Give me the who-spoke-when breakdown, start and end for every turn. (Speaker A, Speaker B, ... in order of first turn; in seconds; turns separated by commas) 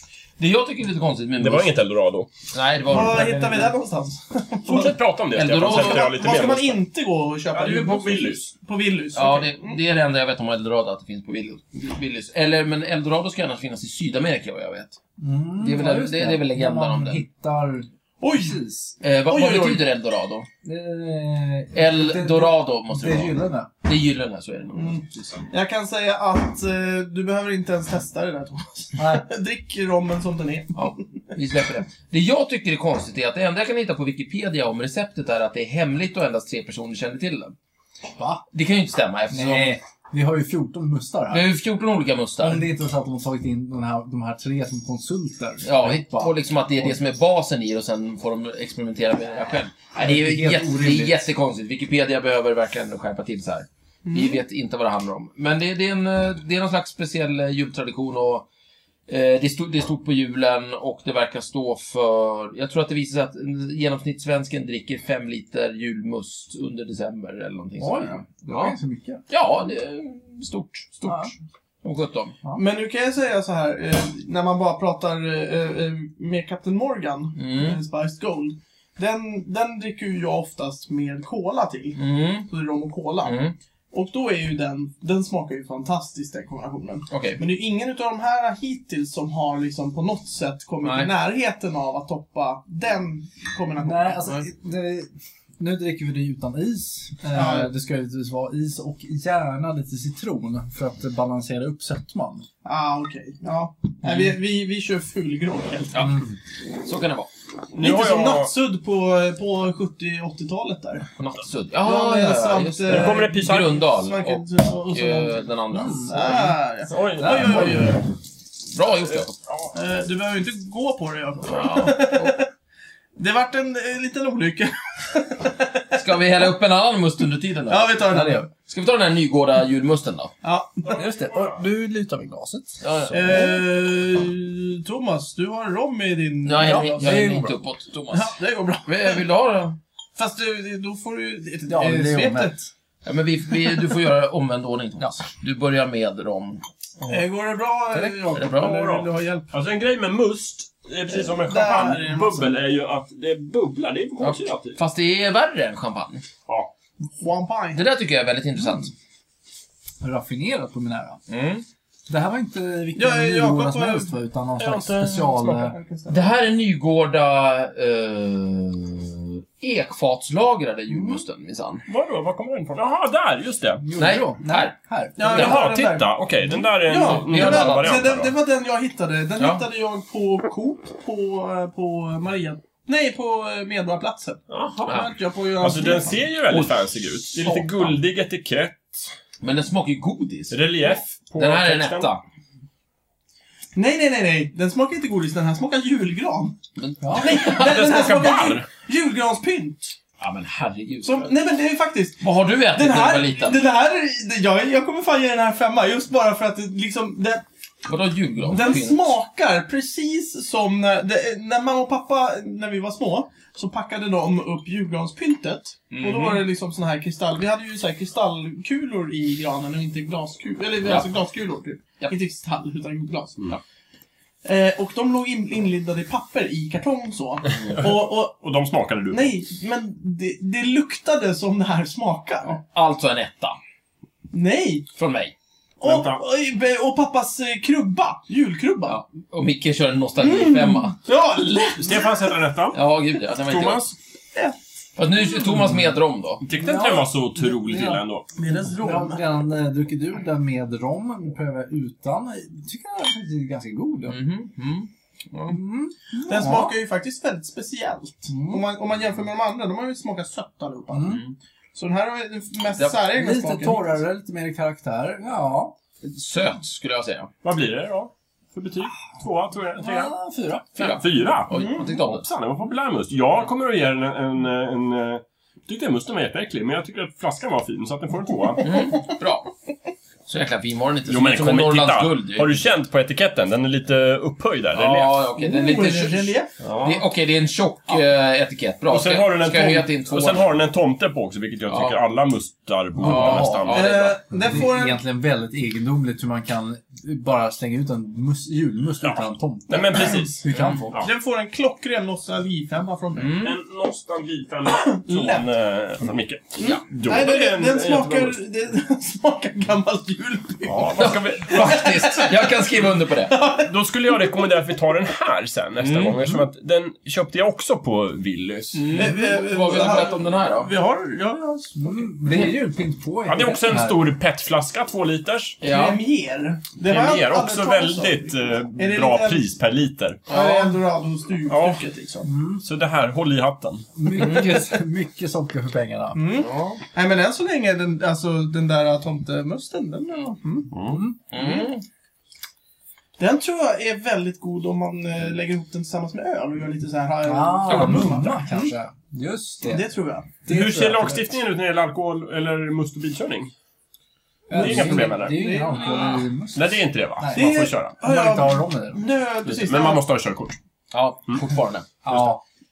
Speaker A: 0.4-1.7, Speaker B: 1.4-2.3, Speaker A: 2.5-3.7, Speaker C: 2.9-4.9, Speaker B: 4.6-6.8, Speaker A: 5.3-6.1, Speaker C: 5.6-9.8, Speaker B: 7.5-8.5, Speaker A: 9.1-15.0, Speaker D: 15.2-18.9, Speaker A: 15.6-17.2, Speaker C: 18.2-18.6, Speaker A: 19.0-20.5, Speaker C: 19.3-19.8, Speaker D: 20.6-23.7, Speaker A: 21.7-25.4, Speaker C: 24.7-30.9, Speaker D: 29.0-29.3, Speaker A: 30.7-37.5, Speaker D: 38.1-38.4, Speaker A: 38.5-39.8, Speaker D: 39.3-41.5, Speaker A: 41.3-42.6, Speaker D: 42.4-47.0, Speaker A: 45.6-58.5, Speaker D: 50.0-51.2, Speaker C: 54.0-54.4, Speaker A: 59.1-68.8, Speaker D: 67.8-69.2, Speaker A: 69.3-72.3, Speaker D: 71.1-71.3, Speaker C: 72.5-83.4, Speaker A: 77.3-77.8, Speaker A: 82.0-82.5, Speaker A: 83.2-83.5, Speaker C: 83.9-94.5, Speaker A: 87.1-87.4, Speaker A: 90.8-91.1, Speaker D: 93.8-102.5, Speaker C: 97.3-97.8, Speaker C: 102.6-106.2, Speaker D: 104.0-104.3, Speaker A: 105.9-106.2, Speaker D: 106.0-106.3, Speaker A: 106.8-107.3, Speaker B: 107.7-108.5, Speaker C: 107.8-111.1, Speaker A: 111.2-116.5, Speaker C: 111.8-115.5, Speaker B: 112.9-113.8, Speaker D: 115.7-116.5, Speaker C: 116.1-118.0, Speaker B: 116.9-117.8, Speaker D: 117.2-117.9, Speaker A: 118.7-119.4, Speaker B: 118.9-119.7, Speaker C: 119.7-122.5, Speaker A: 121.4-122.4, Speaker C: 123.2-126.1, Speaker A: 125.9-130.3, Speaker C: 127.7-128.5, Speaker D: 128.1-128.4, Speaker C: 130.4-131.1, Speaker D: 130.9-133.5, Speaker A: 132.8-133.6, Speaker C: 133.1-137.3, Speaker A: 136.4-138.3, Speaker D: 136.6-137.6, Speaker C: 138.1-139.2, Speaker A: 138.8-139.8, Speaker C: 140.2-142.6, Speaker D: 141.7-142.7, Speaker A: 143.0-146.6, Speaker C: 147.1-149.5, Speaker A: 148.2-149.0, Speaker B: 148.6-154.8, Speaker C: 151.1-152.6, Speaker A: 154.2-156.2, Speaker B: 156.5-156.7, Speaker C: 157.2-157.8, Speaker A: 157.7-158.9, Speaker D: 160.0-161.2, Speaker A: 161.3-161.6, Speaker D: 162.1-165.8, Speaker C: 162.9-164.1, Speaker B: 164.6-165.6, Speaker C: 165.5-166.3, Speaker A: 166.1-171.8, Speaker C: 170.9-171.2, Speaker B: 171.9-173.8, Speaker D: 173.8-175.5, Speaker A: 174.0-174.7, Speaker C: 175.2-186.2, Speaker B: 175.3-178.3, Speaker A: 175.3-175.6, Speaker A: 176.9-178.0, Speaker A: 179.4-179.6, Speaker B: 184.5-189.1, Speaker A: 184.8-185.1, Speaker A: 186.5-187.9, Speaker A: 189.4-192.2, Speaker B: 190.5-192.1, Speaker C: 193.7-196.6, Speaker A: 196.8-197.9, Speaker D: 197.0-197.4, Speaker C: 197.1-199.9, Speaker B: 197.4-198.7, Speaker A: 200.2-201.3, Speaker C: 201.0-207.4, Speaker A: 202.2-203.6, Speaker A: 207.8-209.1, Speaker C: 208.5-223.6, Speaker A: 215.9-216.4, Speaker A: 220.8-221.1, Speaker C: 224.4-228.4, Speaker B: 227.8-229.3, Speaker C: 229.1-232.6, Speaker A: 232.4-233.6, Speaker C: 234.3-234.9, Speaker A: 234.9-235.3, Speaker C: 235.8-239.0, Speaker B: 235.8-236.2, Speaker A: 238.8-241.0, Speaker C: 240.2-242.3, Speaker B: 241.8-242.8, Speaker A: 242.7-243.9, Speaker B: 243.3-243.9, Speaker A: 244.9-246.4, Speaker B: 246.4-248.3, Speaker D: 246.5-248.0, Speaker C: 248.4-249.2, Speaker D: 248.7-254.2, Speaker A: 254.1-255.6, Speaker D: 255.5-256.8, Speaker C: 256.2-261.2, Speaker D: 258.3-258.6, Speaker D: 260.9-261.2, Speaker A: 261.1-261.3, Speaker C: 261.7-264.0, Speaker D: 263.0-265.8, Speaker A: 266.0-267.3, Speaker B: 267.4-270.1, Speaker D: 269.8-270.9, Speaker A: 270.8-272.3, Speaker B: 270.8-278.8, Speaker C: 271.5-271.9, Speaker A: 278.6-279.5, Speaker A: 280.3-282.6, Speaker B: 281.1-285.2, Speaker A: 284.7-290.5, Speaker C: 285.4-286.5, Speaker B: 286.6-287.0, Speaker B: 288.9-294.0, Speaker A: 291.7-292.0, Speaker D: 293.0-293.7, Speaker A: 293.0-294.2, Speaker C: 293.7-295.0, Speaker D: 294.4-301.0, Speaker B: 299.0-301.1, Speaker A: 300.5-300.8, Speaker C: 301.0-303.4, Speaker A: 303.1-303.5, Speaker B: 303.4-308.4, Speaker C: 304.7-305.5, Speaker C: 306.6-312.6, Speaker B: 310.6-311.9, Speaker A: 310.9-313.4, Speaker C: 313.3-314.2, Speaker B: 313.6-319.1, Speaker A: 315.8-316.1, Speaker A: 318.7-320.7, Speaker C: 318.9-322.0, Speaker D: 321.8-324.0, Speaker B: 323.2-325.6, Speaker A: 325.6-326.0, Speaker C: 325.6-329.5, Speaker B: 326.8-330.2, Speaker A: 330.3-330.7, Speaker C: 330.3-332.3, Speaker B: 331.5-331.8, Speaker D: 332.2-332.6, Speaker B: 332.6-333.9, Speaker D: 333.9-336.2, Speaker A: 334.1-334.6, Speaker C: 336.1-340.7, Speaker A: 336.3-336.8, Speaker B: 340.7-341.0, Speaker D: 340.9-341.2, Speaker A: 341.3-341.8, Speaker C: 341.3-341.7, Speaker C: 343.2-348.7, Speaker D: 347.2-351.3, Speaker A: 347.7-348.1, Speaker C: 349.6-350.3, Speaker B: 350.4-353.5, Speaker D: 354.5-359.0, Speaker B: 354.5-355.6, Speaker C: 354.5-356.2, Speaker B: 356.5-357.9, Speaker C: 357.3-360.0, Speaker B: 359.4-360.6, Speaker A: 360.9-362.0, Speaker D: 362.0-362.4, Speaker B: 362.1-362.3